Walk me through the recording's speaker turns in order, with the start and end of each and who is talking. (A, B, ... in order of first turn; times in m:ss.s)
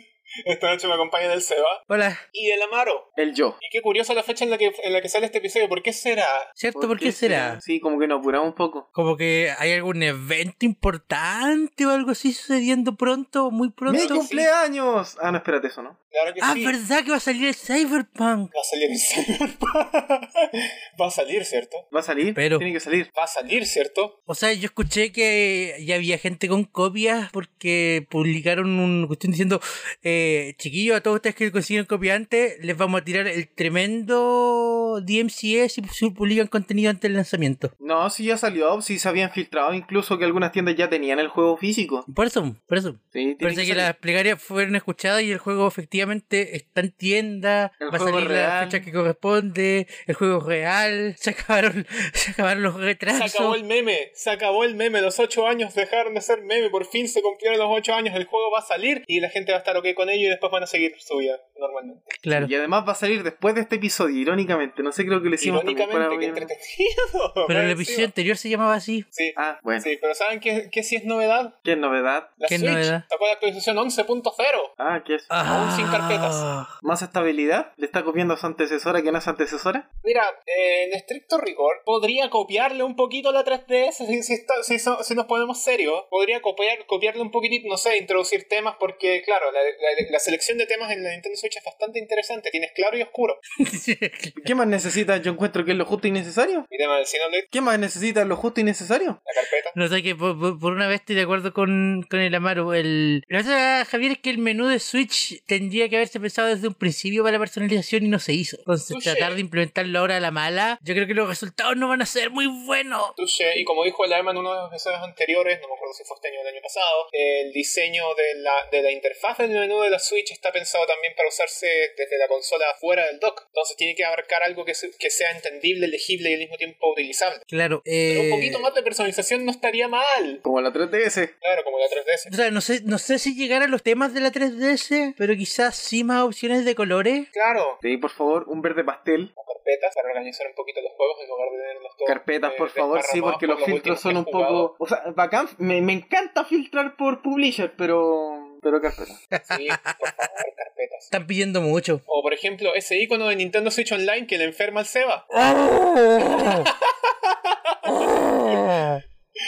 0:00.5-0:01.8 A
0:01.9-0:02.2 B
0:02.3-0:03.1 A
0:03.2-0:03.6 C
0:03.6-0:06.5 A
0:06.6-0:07.6 B
0:06.8-0:08.9 C
0:08.9-0:14.2 B
0:13.9-0:14.5 A
0:13.9-0:16.0 C
0:16.1-0:16.7 A
0:16.4-0:18.5 B
0:18.5-0:21.8 A
0:21.9-0:23.1 C
0:22.4-0:22.6 B
0:23.1-0:24.1 A
0:24.3-0:37.7 B
0:37.8-0:42.1 C
0:42.1-0:53.6 B
0:43.1-0:43.9 C
0:47.8-0:48.8 C
0:53.1-1:02.1 A
1:02.2-1:02.5 B
1:02.3-1:06.5 C
1:05.4-1:08.1 A
1:07.5-1:09.1 B
1:09.1-1:11.6 A
1:09.4-1:09.9 C
1:11.6-1:12.4 C
1:12.4-1:14.7 A
1:12.5-1:13.0 B
1:14.8-1:15.3 C
1:15.3-1:16.7 B
1:15.4-1:16.5 A
1:16.8-1:19.9 C
1:20.0-1:33.4 A
1:33.6-1:34.5 B
1:34.4-1:36.7 C
1:36.7-1:37.5 A
1:37.5-1:39.2 C
1:39.3-1:39.8 A
1:39.7-1:53.2 B
1:48.9-1:49.4 A
1:53.2-2:07.4 A
2:07.5-2:08.7 B
2:08.1-2:10.4 A
2:10.4-2:11.3 C
2:11.4-2:12.3 A
2:12.3-2:17.3 B
2:17.3-2:17.8 A
2:17.8-2:19.3 C
2:19.4-2:24.7 A
2:22.1-2:29.2 C
2:29.3-2:30.3 B
2:29.5-2:31.1 A
2:31.1-2:32.0 B
2:32.1-2:35.4 A
2:35.3-2:36.7 B
2:36.2-2:38.7 A
2:37.9-2:39.0 B